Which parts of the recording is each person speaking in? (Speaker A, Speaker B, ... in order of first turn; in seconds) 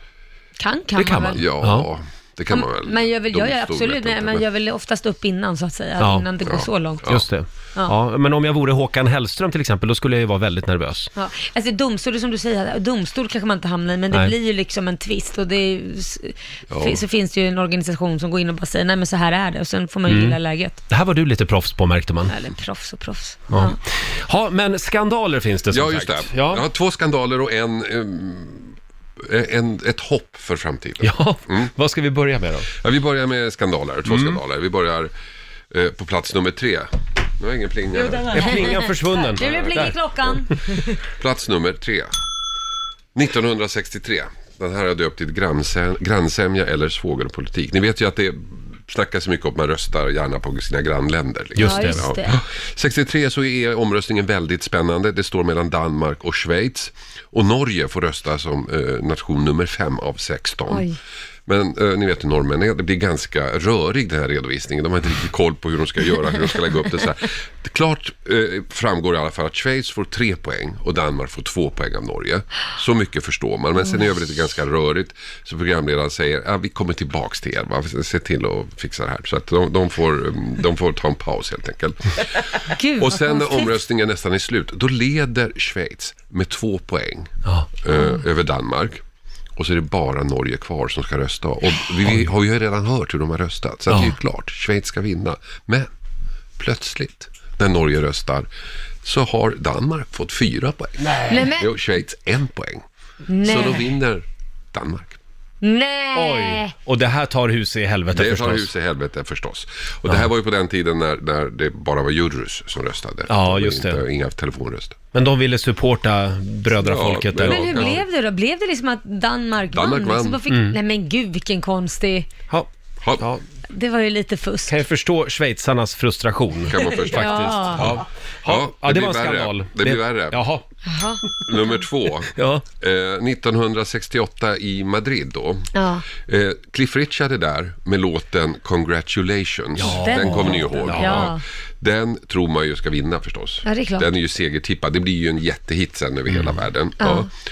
Speaker A: 0.6-1.4, 2.5-7.2, 11.2-20.8, 22.3-23.8, 38.3-40.5, 51.6-52.4, 60.7-61.0, 82.7-83.7, 101.3-101.7, 103.3-104.0, 105.6-106.7, 117.4-122.3, 123.7-124.8, 127.1-128.0, 130.8-131.2, 135.7-136.1, 139.8-141.4, 143.7-144.1, 147.0-147.3
Speaker B: 0.9-1.9, 6.0-6.3, 7.0-11.1, 20.1-20.4, 20.9-22.3, 23.5-26.6, 31.0-32.7, 34.0-34.4, 38.3-40.0, 51.5-52.1, 93.9-94.1, 101.0-101.5, 106.1-108.7, 113.3-114.0, 115.1-118.0, 120.5-120.8, 122.5-123.4, 124.7-130.6, 132.3-132.6, 139.8-141.3, 146.3-146.6
Speaker C: 1.3-4.4, 6.4-7.2, 16.7-17.0, 25.7-31.7, 32.7-35.1, 35.7-38.5, 39.4-40.4, 41.0-42.1, 43.1-60.9, 61.5-82.2, 83.0-89.0, 89.5-95.9, 96.6-98.5, 99.0-102.8, 103.4-105.2, 108.1-115.0, 116.8-118.0, 119.7-120.4, 123.0-123.3, 126.7-130.4, 131.4-147.3